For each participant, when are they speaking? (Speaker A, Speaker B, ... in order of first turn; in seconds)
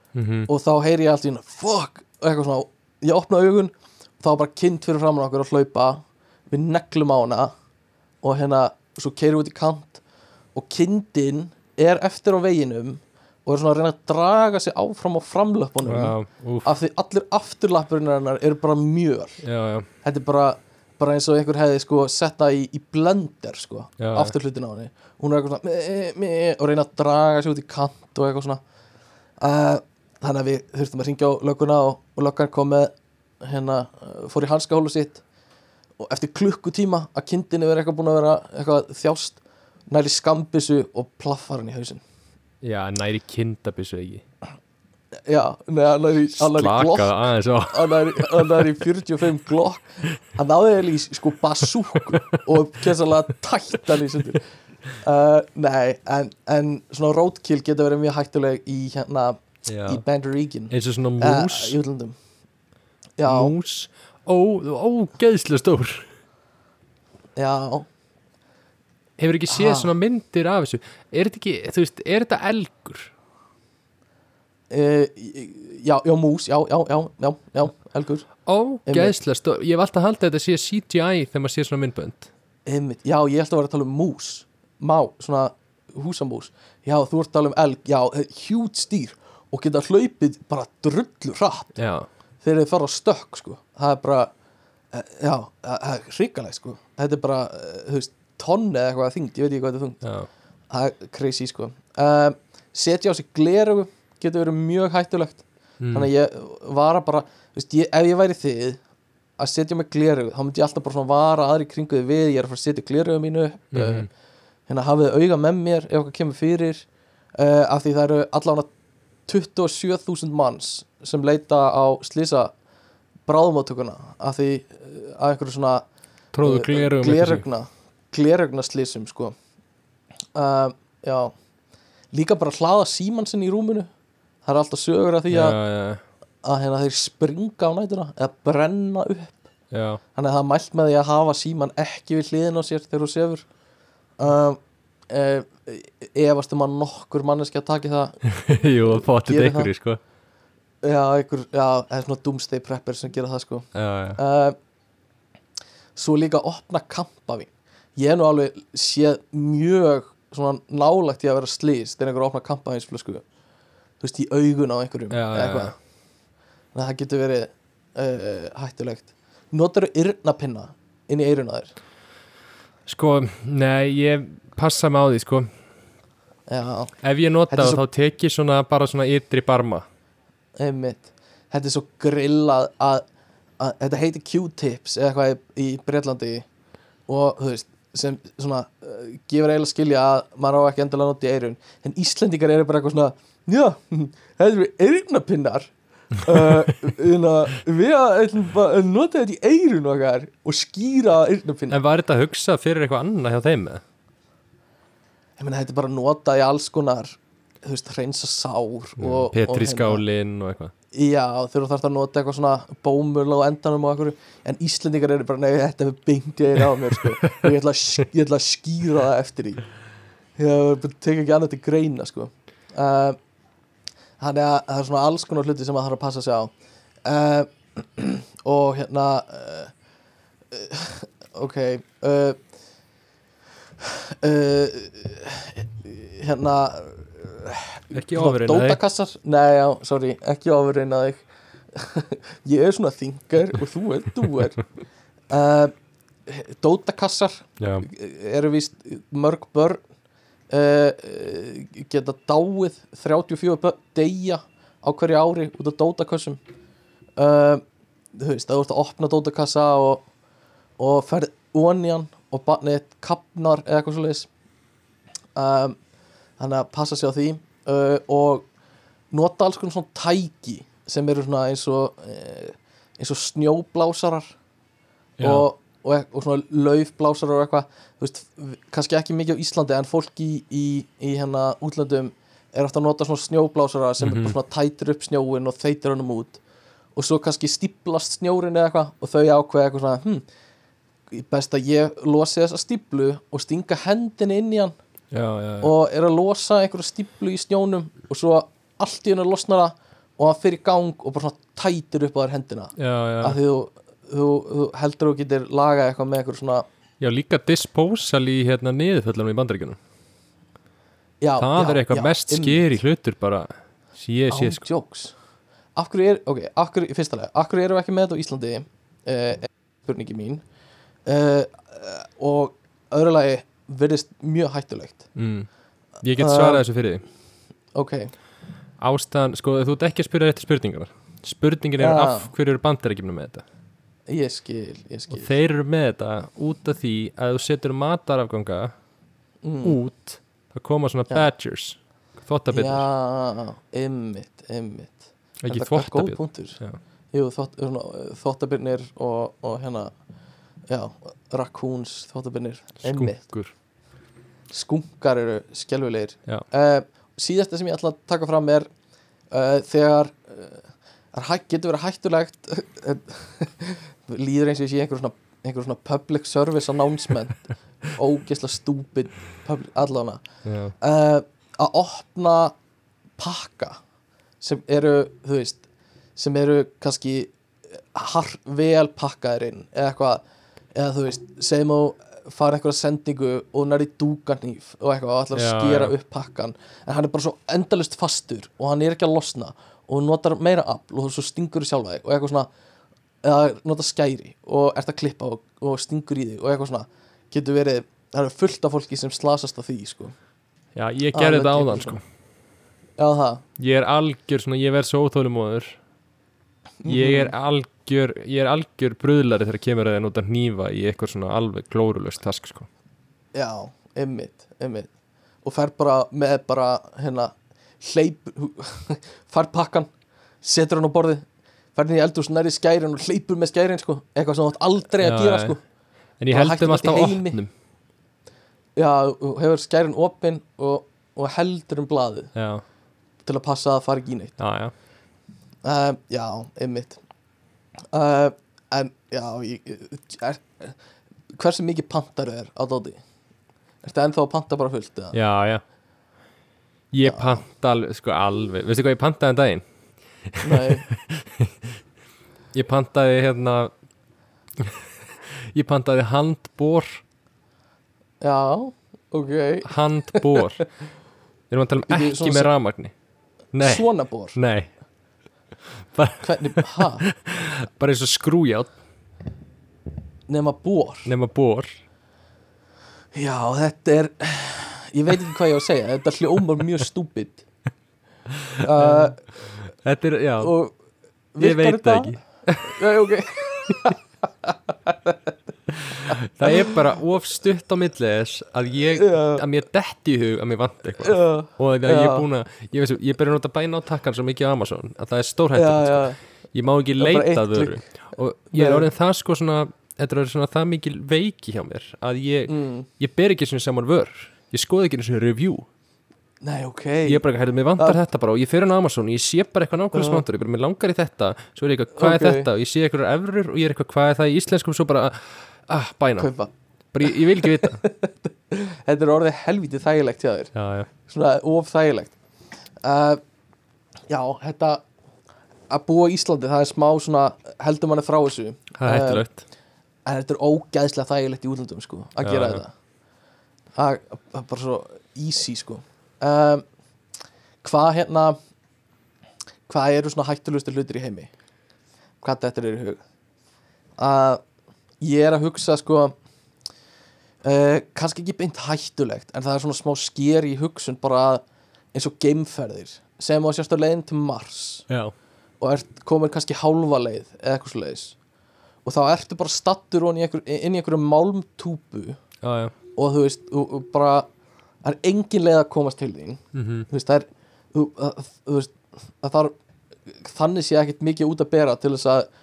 Speaker A: 0.1-0.5, 15.8-16.7, 19.4-19.9, 24.0-24.3, 42.6-44.2, 46.4-48.7, 59.7-60.0, 60.7-61.8, 63.2-66.1, 69.2-73.1, 78.5-82.3, 91.8-92.1, 100.0-100.3, 105.8-106.1, 113.7-114.1, 126.3-127.4, 135.3-136.0, 139.7-140.0, 148.3-150.0, 153.7-154.2, 165.1-165.8, 172.9-175.5, 177.0-179.8, 201.7-203.8, 209.0-210.7, 216.9-217.5, 237.9-238.8, 247.6-247.9, 275.2-275.5, 284.0-284.4, 295.1-295.7, 302.8-303.4, 307.0-309.8, 311.4-314.6, 325.1-325.5, 326.0-327.0, 328.8-333.4, 335.1-338.7, 339.6-342.9, 345.4-346.8, 352.8-353.5, 370.4-370.7, 385.4-385.9, 400.8-402.0, 403.6-405.8, 406.9-412.7, 425.0-425.6, 426.2-427.5, 432.4-432.6, 434.4-434.7, 445.1-445.6, 446.9-449.6, 450.3-451.7, 452.5-453.7, 454.6-457.0, 459.6-460.6, 461.5-462.9, 463.5-464.7, 465.9-468.8, 471.1-471.8, 478.3-480.5, 481.4-482.8, 485.7-505.7, 507.1-516.3, 516.9-517.8, 520.5-520.9, 528.8-529.4, 532.2-532.6, 554.9-555.1, 562.4-562.7, 566.5-566.9
Speaker B: 0.5-7.5, 8.2-10.0, 10.6-19.4, 20.0-28.6, 29.4-35.2, 36.0-42.0, 45.3-54.5, 55.0-62.2, 63.2-63.5, 67.4-67.9, 69.5-69.9, 74.7-78.3, 78.9-79.2, 82.7-91.8, 92.4-94.3, 94.9-100.0, 100.7-108.8, 109.4-114.1, 114.7-118.7, 119.3-122.5, 123.3-125.8, 126.4-129.3, 130.3-131.3, 132.1-133.9, 134.4-135.6, 136.4-139.5, 140.2-143.4, 144.2-148.2, 148.9-149.7, 150.8-154.6, 156.0-163.2, 164.0-165.8, 166.7-171.8, 176.5-176.9, 177.5-177.8, 180.6-183.0, 183.6-186.5, 187.1-201.8, 205.4-210.0, 210.9-219.7, 220.4-223.2, 224.2-226.5, 227.1-229.7, 230.5-232.4, 233.8-244.7, 245.3-245.7, 246.3-249.8, 250.5-256.4, 257.2-257.6, 258.1-260.0, 260.8-264.3, 265.4-265.8, 266.4-268.5, 269.1-274.4, 275.2-286.4, 286.9-290.2, 291.1-294.7, 295.6-306.6, 311.2-312.7, 314.3-315.1, 315.8-320.4, 321.1-325.1, 326.2-326.6, 327.8-328.1, 331.8-332.3, 334.1-335.3, 339.4-339.8, 342.5-346.6, 347.1-349.9, 350.7-353.2, 354.5-358.7, 359.3-370.2, 370.8-372.6, 373.2-373.8, 374.4-375.6, 376.2-380.2, 380.8-392.5, 393.2-400.2, 401.1-402.0, 403.0-403.4, 406.8-407.3, 413.3-414.9, 415.4-419.9, 420.4-425.6, 426.3-427.4, 428.8-432.3, 433.3-434.4, 435.6-437.0, 437.9-440.8, 441.3-443.0, 443.8-445.2, 447.1-447.4, 450.4-450.9, 458.2-460.6, 461.9-462.5, 463.6-464.4, 466.2-467.0, 470.3-471.1, 473.1-477.4, 478.6-479.3, 480.4-480.7, 481.4-485.3, 485.9-486.8, 489.0-489.4, 491.0-492.3, 495.6-496.2, 497.0-498.9, 502.5-502.9, 506.4-507.2, 509.9-510.2, 512.0-512.5, 516.2-516.5, 517.1-520.5, 521.1-522.2, 522.8-523.2, 524.1-524.8, 525.7-529.3, 530.1-532.7, 533.8-536.6, 537.6-538.4, 539.7-541.3, 542.2-543.0, 544.0-544.4, 545.0-546.1, 547.4-551.4, 551.9-554.9, 555.6-558.2, 558.9-562.2, 563.0-564.3, 564.8-569.5, 570.1-572.3